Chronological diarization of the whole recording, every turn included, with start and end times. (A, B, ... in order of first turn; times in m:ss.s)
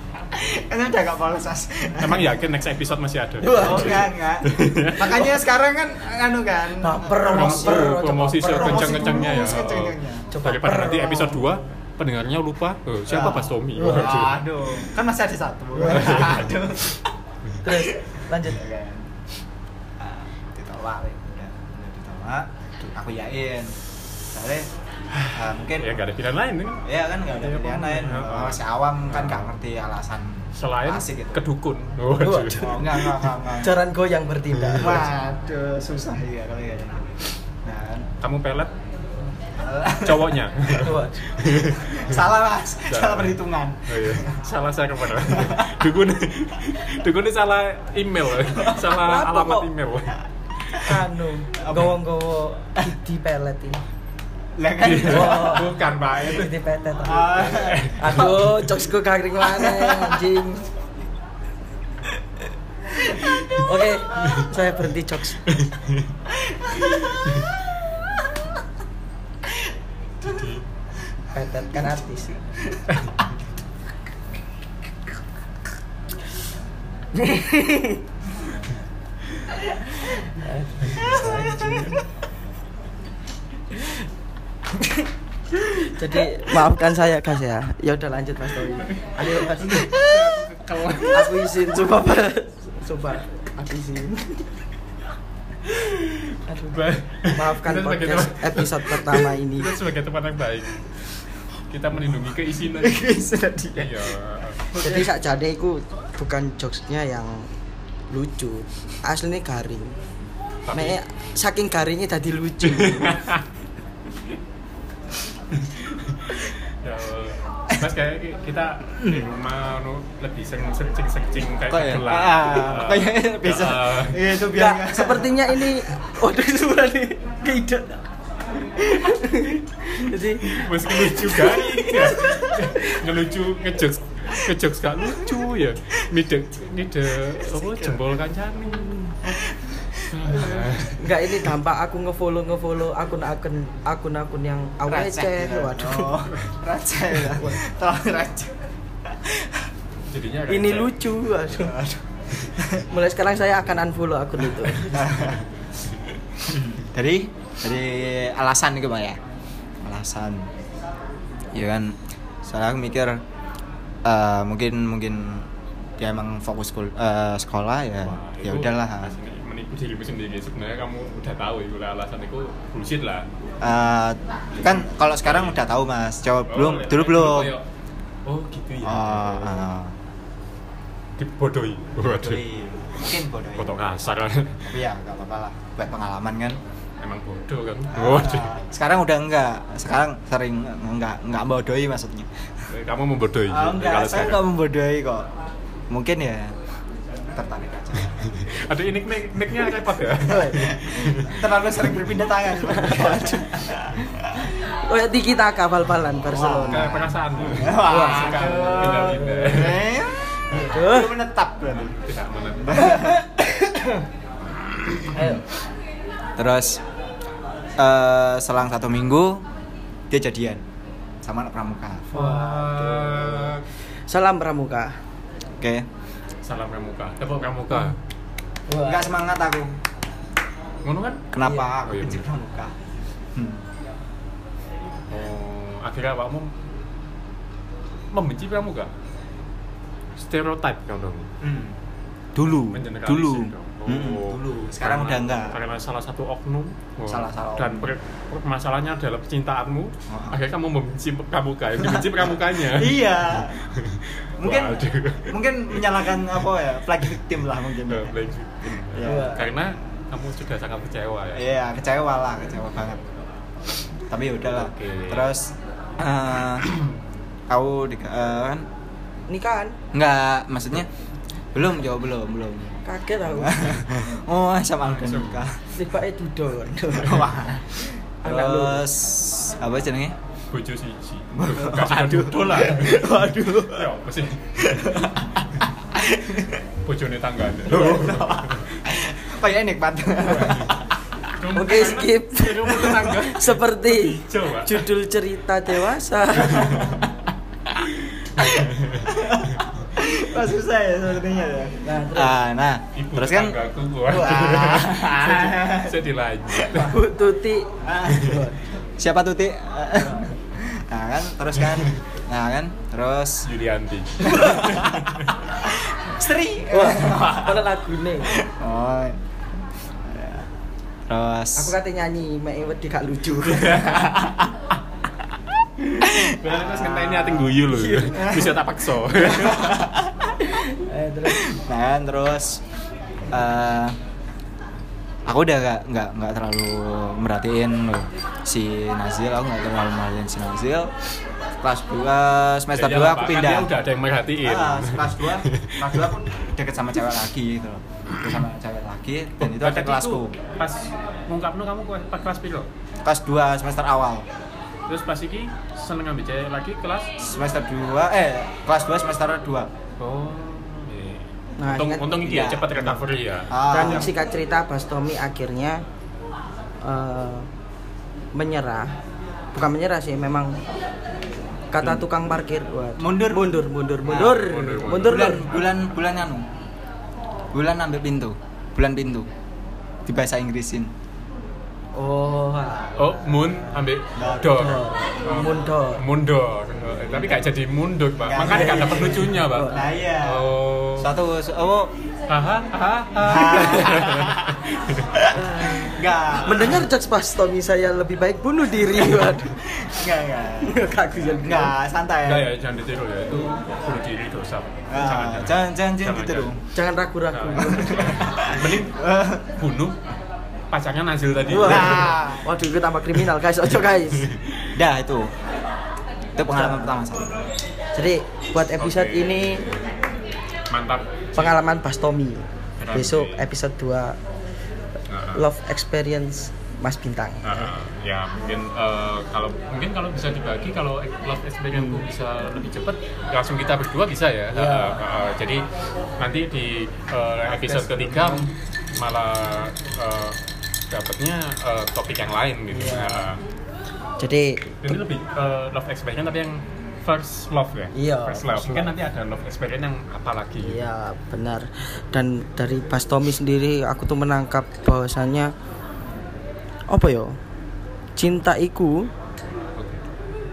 0:00.3-0:02.3 A
0:02.0-0:05.3 B
0:03.4-0:04.0 C
0:03.5-0:10.3 A
0:06.8-0:09.6 C
0:07.3-0:14.4 B
0:10.3-0:11.6 C
0:13.1-0:17.1 A
0:13.8-0:14.1 C
0:15.8-0:16.1 C
0:15.9-0:16.5 B
0:17.6-0:18.6 C
0:17.7-0:19.1 A
0:20.0-0:23.8 A
0:24.3-0:24.7 A
0:25.2-0:29.6 B
0:25.3-0:26.0 A
0:26.8-0:31.4 A
0:30.6-0:33.3 B
0:32.2-0:33.0 C
0:32.6-0:33.8 A
0:33.6-0:35.1 C
0:34.6-0:35.0 B
0:34.8-0:37.1 A
0:37.6-0:38.1 A
0:38.2-0:38.7 B
0:39.6-0:40.4 A
0:40.0-0:42.1 B
0:40.8-0:41.2 C
0:41.5-0:44.3 A
0:42.9-0:50.8 B
0:45.3-0:45.7 A
0:49.0-0:49.7 C
0:50.8-0:53.8 C
0:51.6-0:51.9 A
0:54.6-0:55.7 A
0:54.8-0:56.5 B
0:55.0-1:00.7 C
0:57.0-0:58.0 A
0:57.4-0:58.7 B
0:59.4-1:00.2 A
1:03.5-1:05.5 C
1:05.5-1:06.1 B
1:06.3-1:07.2 A
1:10.2-1:10.5 A
1:10.3-1:10.6 B
1:11.3-1:12.3 C
1:17.2-1:18.0 C
1:19.9-1:22.1 C
1:25.6-1:30.1 C
1:28.9-1:31.6 B
1:31.1-1:34.5 C
1:35.7-1:43.1 B
1:36.5-1:36.8 C
1:37.3-1:39.8 C
1:42.8-1:44.1 A
1:43.8-1:45.0 B
1:44.8-1:47.5 C
1:48.1-1:50.0 C
1:50.7-1:51.0 B
1:50.7-1:53.2 C
1:52.6-1:53.4 B
1:55.5-2:04.2 B
2:01.7-2:05.7 A
2:04.5-2:08.0 C
2:08.8-2:13.0 C
2:10.4-2:19.2 B
2:17.3-2:18.0 A
2:19.2-2:20.8 A
2:20.0-2:21.1 B
2:21.0-2:26.2 C
2:24.9-2:29.7 A
2:30.1-2:31.0 B
2:30.5-2:31.8 C
2:31.5-2:32.8 A
2:32.9-2:35.1 C
2:34.9-2:35.4 A
2:36.5-2:39.2 A
2:39.8-2:40.5 A
2:41.5-2:43.2 A
2:44.0-2:49.2 A
2:48.0-2:53.3 B
2:53.6-2:57.6 A
2:54.6-2:55.6 B
2:56.5-2:57.7 B
2:58.3-2:59.6 B
2:58.8-2:59.9 A
3:01.2-3:02.4 B
3:02.0-3:03.9 A
3:03.6-3:04.6 B
3:04.6-3:06.6 A
3:07.0-3:08.5 B
3:07.9-3:12.7 A
3:12.7-3:14.5 B
3:13.5-3:15.3 A
3:15.9-3:16.6 A
3:17.3-3:18.4 A
3:18.3-3:21.4 B
3:20.3-3:20.8 C
3:20.5-3:24.5 A
3:22.7-3:23.4 C
3:24.9-3:27.0 C
3:26.2-3:31.9 A
3:26.7-3:29.9 B
3:27.8-3:29.3 C
3:30.5-3:31.1 C
3:31.7-3:33.0 B
3:32.6-3:33.2 A
3:32.8-3:34.0 C
3:35.0-3:35.4 C
3:35.1-3:35.4 A
3:36.4-3:36.8 A
3:37.8-3:39.4 A
3:40.1-3:40.6 A
3:41.2-3:42.1 A
3:42.1-3:45.0 C
3:42.1-3:43.6 B
3:45.6-3:45.9 A
3:46.4-3:48.0 B
3:48.7-3:49.1 C
3:48.8-3:49.7 A
3:50.8-3:52.2 B
3:51.3-3:52.8 A
3:53.3-3:53.6 A
3:55.1-3:56.5 B
3:58.1-3:58.9 B
4:00.2-4:01.3 B
4:01.4-4:01.8 A
4:02.4-4:05.6 A
4:02.6-4:16.2 B
4:07.1-4:07.9 A
4:10.1-4:10.4 A
4:11.8-4:13.6 A
4:14.4-4:18.2 A
4:17.9-4:21.5 B
4:18.8-4:19.4 A
4:19.0-4:19.5 C
4:21.4-4:23.0 A
4:24.1-4:26.7 A
4:24.5-4:25.3 B
4:27.5-4:28.7 A
4:29.3-4:29.8 C
4:29.9-4:30.9 A
4:31.5-4:35.6 A
4:32.8-4:33.9 C
4:34.9-4:35.5 B
4:35.8-4:37.3 C
4:36.9-4:40.2 A
4:38.2-4:38.9 C
4:40.5-4:45.0 B
4:41.4-4:43.9 A
4:44.6-4:46.6 A
4:46.8-4:48.8 B
4:47.6-4:50.9 A
4:50.3-4:50.8 B
4:51.4-4:54.9 B
4:51.5-4:57.0 C
4:56.4-4:57.0 B
4:56.7-4:57.1 A
4:58.4-4:59.6 B
4:58.4-5:03.6 A
5:01.8-5:02.4 C
5:03.0-5:07.0 B
5:04.1-5:06.0 A
5:06.7-5:08.6 C
5:07.8-5:08.4 A
5:08.1-5:08.4 B
5:08.9-5:13.5 A
5:13.4-5:15.3 B
5:14.2-5:17.7 A
5:14.3-5:14.7 C
5:16.7-5:18.4 C
5:18.2-5:19.2 A
5:20.0-5:20.5 A
5:21.1-5:21.8 A
5:21.6-5:23.9 C
5:23.5-5:24.2 B
5:23.7-5:24.5 A
5:26.0-5:30.3 A
5:26.0-5:29.9 B
5:27.7-5:28.1 C
5:30.4-5:31.4 C
5:31.2-5:32.6 A
5:33.3-5:34.0 A
5:35.3-5:40.9 A
5:41.6-5:43.7 A
5:42.8-5:46.1 B
5:44.4-5:50.4 A
5:49.4-5:52.7 B
5:53.0-5:54.3 A
5:54.9-5:57.1 B
5:57.2-5:59.7 A
6:00.0-6:04.1 B
6:01.6-6:02.1 C
6:02.2-6:04.1 A
6:03.7-6:05.8 C
6:06.8-6:07.5 C
6:08.3-6:09.0 C
6:09.5-6:10.6 C
6:11.7-6:15.5 C
6:13.0-6:13.5 A
6:14.0-6:14.4 A
6:14.1-6:15.8 B
6:15.0-6:16.5 A
6:17.5-6:19.3 A
6:20.1-6:20.9 A
6:22.0-6:23.1 C
6:23.0-6:31.2 B
6:24.2-6:24.6 A
6:24.5-6:26.0 C
6:27.1-6:27.5 A
6:28.2-6:31.9 A
6:28.4-6:29.8 C
6:32.3-6:35.2 B
6:33.2-6:34.6 A
6:35.1-6:36.9 A
6:35.3-6:39.6 C
6:39.4-6:42.5 A
6:40.6-6:41.7 C
6:42.2-6:46.5 B
6:44.9-6:46.6 A
6:46.8-6:48.2 C
6:47.3-6:49.0 B
6:47.8-6:49.6 A
6:49.5-6:50.0 B
6:50.7-6:52.2 B
6:51.5-6:54.3 C
6:51.6-6:52.4 A
6:54.8-6:55.3 A
6:56.4-6:57.3 A
6:56.5-6:56.9 C
6:58.0-6:59.6 C
6:58.8-6:59.8 B
7:00.7-7:01.6 B
7:01.4-7:04.2 C
7:02.8-7:03.4 B
7:05.1-7:05.4 B
7:05.4-7:07.7 C
7:07.4-7:15.6 B
7:11.7-7:12.1 C
7:14.5-7:15.0 C
7:16.2-7:20.4 B
7:17.5-7:18.5 A
7:20.9-7:23.4 B
7:22.7-7:23.3 C
7:24.2-7:25.0 C
7:24.8-7:30.8 B
7:27.9-7:28.9 C
7:30.6-7:35.5 C
7:36.9-7:37.4 C
7:38.2-7:39.1 C
7:39.8-7:40.0 B